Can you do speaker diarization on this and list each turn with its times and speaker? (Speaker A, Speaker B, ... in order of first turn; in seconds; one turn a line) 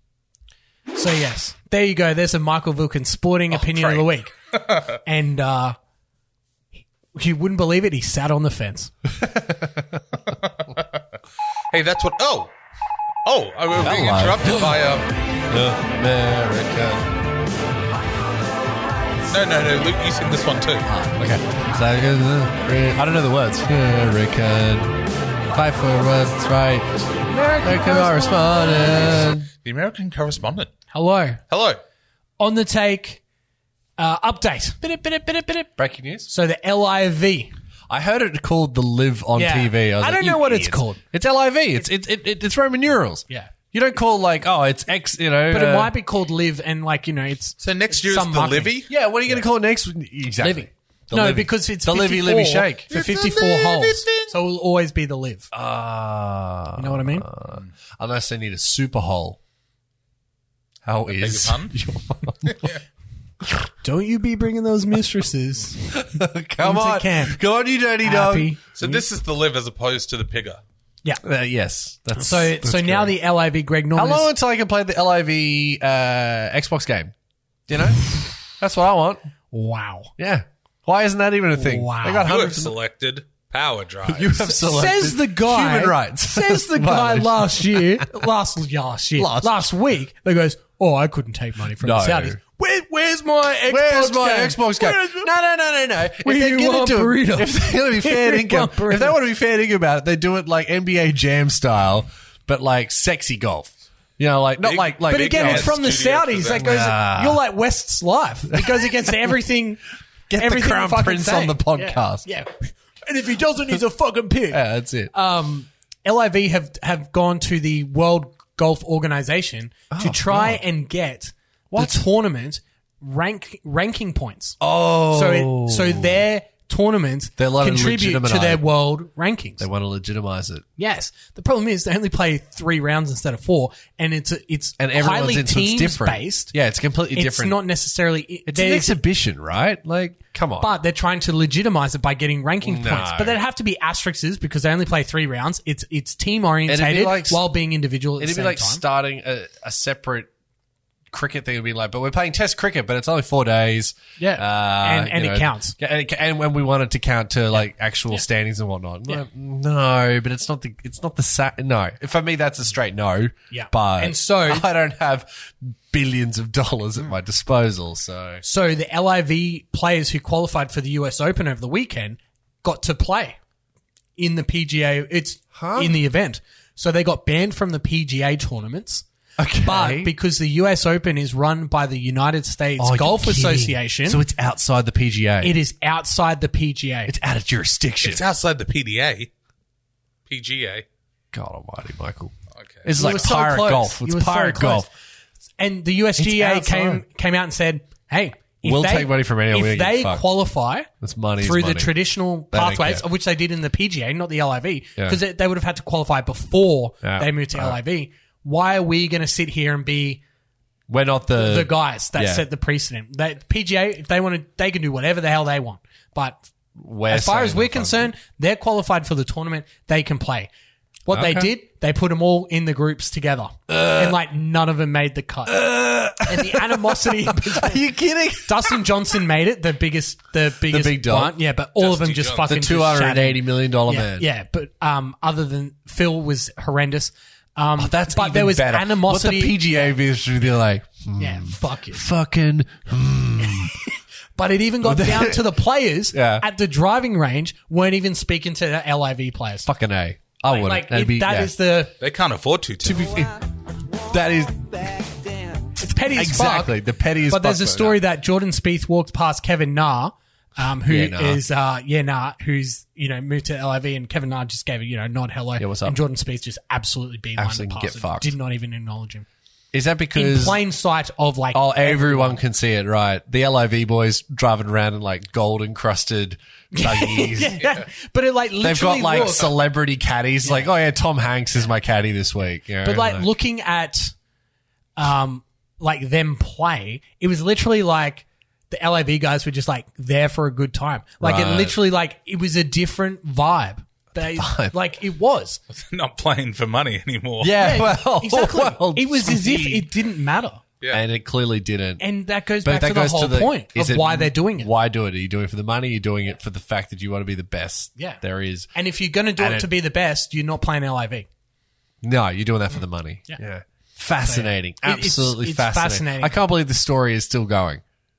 Speaker A: 0.9-4.3
Speaker B: 3.5-5.0
Speaker A: 5.0-5.8
Speaker A: 7.1-8.9
Speaker C: 9.1-10.0
Speaker B: 10.3-11.0
Speaker B: 11.7-12.5
Speaker B: 13.2-15.1
Speaker C: 13.8-14.8
Speaker C: 15.5-17.1
Speaker B: 19.3-20.9
Speaker C: 20.9-25.0
Speaker C: 25.5-26.9
Speaker A: 27.3-28.4
Speaker C: 27.6-29.5
Speaker B: 29.6-30.7
Speaker A: 30.9-31.4
Speaker B: 31.5-31.8
Speaker A: 32.4-33.2
Speaker A: 34.0-35.7
Speaker C: 35.8-36.3
Speaker A: 36.3-37.5
Speaker C: 37.9-45.9
Speaker A: 39.3-41.0
Speaker A: 45.5-48.7
Speaker B: 47.6-48.9
Speaker C: 48.9-53.2
Speaker A: 50.4-55.5
Speaker B: 53.0-54.3
Speaker C: 55.5-59.4
Speaker A: 56.8-57.3
Speaker C: 60.8-62.6
Speaker B: 61.2-61.7
Speaker B: 62.4-62.8
Speaker A: 63.8-66.0
Speaker C: 65.9-68.5
Speaker A: 66.6-67.4
Speaker A: 68.0-69.0
Speaker B: 68.7-70.6
Speaker C: 71.2-73.2
Speaker A: 72.1-74.3
Speaker C: 73.9-77.1
Speaker C: 77.7-79.3
Speaker A: 79.5-80.1
Speaker C: 80.2-82.7
Speaker A: 81.5-82.3
Speaker B: 82.2-84.4
Speaker C: 84.0-88.3
Speaker A: 84.4-95.3
Speaker C: 89.2-89.6
Speaker C: 91.8-92.4
Speaker C: 93.7-105.8
Speaker A: 96.2-99.2
Speaker B: 104.6-106.7
Speaker A: 105.1-109.8
Speaker C: 106.6-107.4
Speaker C: 108.5-109.3
Speaker C: 110.3-112.2
Speaker A: 110.3-124.6
Speaker C: 114.5-115.1
Speaker C: 119.9-120.6
Speaker C: 121.7-122.0
Speaker C: 124.6-126.2
Speaker A: 125.1-129.6
Speaker C: 127.4-128.6
Speaker C: 129.6-130.6
Speaker A: 130.8-136.5
Speaker C: 134.8-137.6
Speaker A: 137.1-139.0
Speaker C: 138.5-140.7
Speaker A: 140.6-148.8
Speaker C: 142.6-143.4
Speaker C: 146.7-147.4
Speaker C: 148.2-150.3
Speaker C: 151.1-168.4
Speaker A: 154.2-155.7
Speaker A: 163.5-164.7
Speaker A: 168.4-173.4
Speaker A: 174.2-179.0
Speaker C: 175.5-176.0
Speaker C: 179.4-180.1
Speaker A: 179.6-184.2
Speaker C: 182.8-185.6
Speaker A: 185.4-187.1
Speaker C: 187.1-188.2
Speaker B: 188.0-189.3
Speaker B: 190.3-190.8
Speaker C: 191.3-194.9
Speaker B: 192.5-192.8
Speaker A: 192.9-194.9
Speaker A: 195.6-210.2
Speaker C: 196.2-197.0
Speaker C: 198.6-200.2
Speaker C: 201.0-201.9
Speaker C: 202.5-203.0
Speaker C: 207.0-207.8
Speaker C: 210.9-212.4
Speaker A: 211.4-216.5
Speaker C: 216.8-218.1
Speaker A: 217.1-220.5
Speaker A: 221.1-225.6
Speaker C: 221.1-221.5
Speaker C: 223.7-224.2
Speaker C: 225.5-228.8
Speaker A: 226.2-227.8
Speaker A: 228.4-239.9
Speaker C: 230.7-231.3
Speaker B: 231.8-232.6
Speaker C: 232.4-234.3
Speaker C: 237.8-243.8
Speaker A: 241.2-242.0
Speaker A: 244.3-249.7
Speaker C: 244.8-245.5
Speaker C: 246.1-246.4
Speaker C: 249.6-251.5
Speaker A: 250.5-251.9
Speaker B: 252.0-253.2
Speaker C: 252.8-253.4
Speaker C: 253.9-258.0
Speaker A: 255.8-256.7
Speaker A: 257.3-269.2
Speaker C: 260.8-261.4
Speaker C: 265.6-266.0
Speaker C: 267.4-268.3
Speaker C: 269.7-270.6
Speaker A: 270.1-272.4
Speaker C: 271.5-277.7
Speaker A: 276.7-279.5
Speaker C: 278.6-283.3
Speaker A: 280.4-280.7
Speaker A: 282.8-284.1
Speaker A: 285.0-295.6
Speaker C: 291.2-291.8
Speaker C: 294.2-294.7
Speaker B: 295.7-297.8
Speaker C: 297.4-299.9
Speaker A: 297.6-300.6
Speaker C: 300.9-302.0
Speaker A: 302.0-304.7
Speaker C: 302.6-308.7
Speaker A: 308.7-311.3
Speaker C: 309.4-309.7
Speaker C: 312.0-317.8
Speaker A: 314.2-316.3